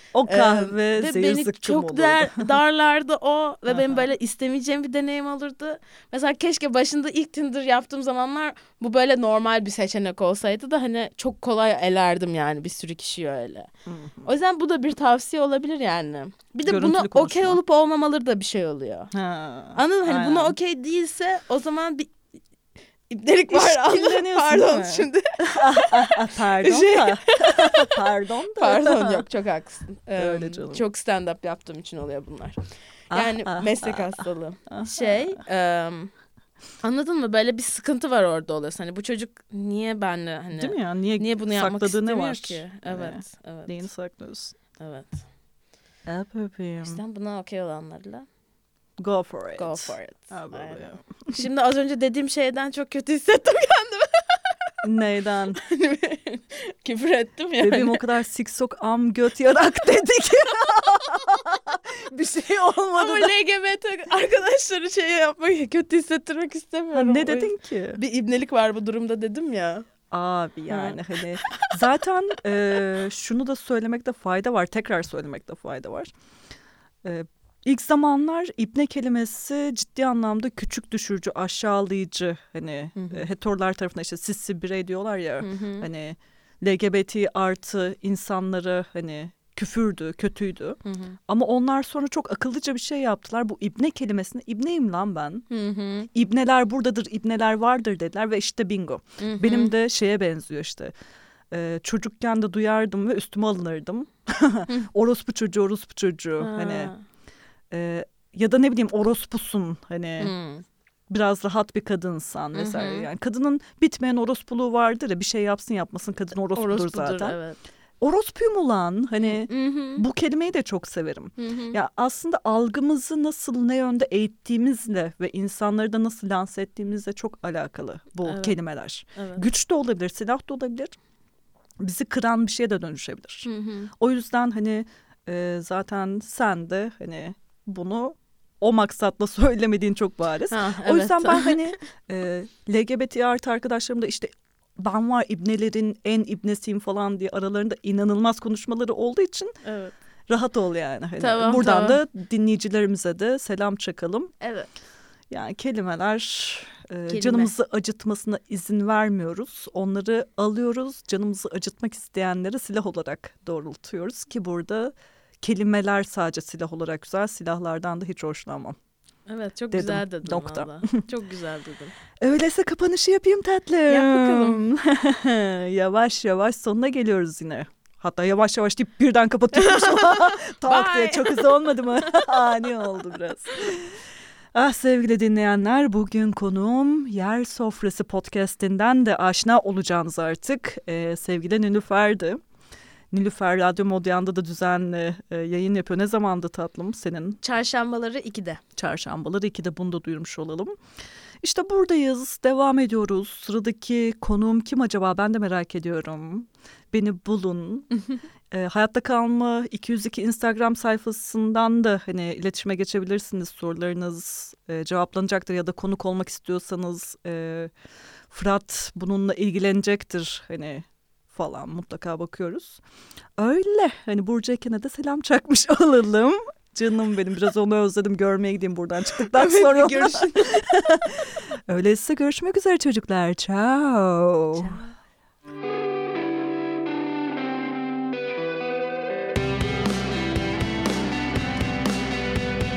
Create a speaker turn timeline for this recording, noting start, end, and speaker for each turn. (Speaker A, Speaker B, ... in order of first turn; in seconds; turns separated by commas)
Speaker A: 0.1-2.5, Speaker B: 0.3-13.7, Speaker A: 3.7-4.0, Speaker A: 13.9-14.3, Speaker B: 14.2-19.1, Speaker A: 16.6-17.6, Speaker A: 19.1-20.5, Speaker B: 19.7-22.1, Speaker B: 23.1-28.0, Speaker A: 23.5-29.2, Speaker B: 28.5-32.6, Speaker A: 30.2-30.8, Speaker B: 33.1-36.1, Speaker A: 33.1-35.4, Speaker B: 36.8-43.8, Speaker A: 40.5-44.5, Speaker B: 44.8-45.2, Speaker A: 46.0-47.0, Speaker B: 46.8-48.3, Speaker A: 49.0-51.0, Speaker B: 49.6-54.4, Speaker A: 54.8-55.6, Speaker B: 55.6-58.0, Speaker A: 57.6-63.3, Speaker B: 63.0-69.9, Speaker A: 66.9-68.0, Speaker A: 70.1-76.1, Speaker B: 70.7-71.8, Speaker A: 77.0-95.5, Speaker B: 83.0-83.2, Speaker B: 85.4-85.9, Speaker B: 90.8-91.2, Speaker B: 95.5-96.1, Speaker A: 96.1-100.9, Speaker B: 99.2-99.7, Speaker A: 101.5-106.9, Speaker B: 106.4-107.0, Speaker A: 107.7-110.3, Speaker B: 110.2-110.6, Speaker A: 111.1-117.4, Speaker B: 112.5-113.1, Speaker B: 116.5-117.6, Speaker A: 118.0-131.0, Speaker B: 119.2-120.0, Speaker B: 121.4-121.8, Speaker B: 128.2-128.6, Speaker B: 129.2-129.4, Speaker A: 131.8-149.6, Speaker B: 133.4-133.9, Speaker B: 140.5-141.8, Speaker B: 149.6-149.9, Speaker A: 150.3-154.3, Speaker B: 151.2-152.0, Speaker B: 154.4-154.7, Speaker A: 155.3-168.8, Speaker B: 157.1-157.5, Speaker B: 169.3-171.9, Speaker A: 169.7-171.0, Speaker A: 172.2-184.0, Speaker B: 173.9-174.6, Speaker B: 179.5-182.2, Speaker A: 184.5-192.4, Speaker A: 193.1-197.4, Speaker B: 197.4-198.6, Speaker A: 198.8-200.7, Speaker A: 201.4-207.9, Speaker A: 208.5-217.7, Speaker A: 218.3-222.8, Speaker A: 223.4-234.8, Speaker B: 229.3-230.6, Speaker B: 234.6-234.9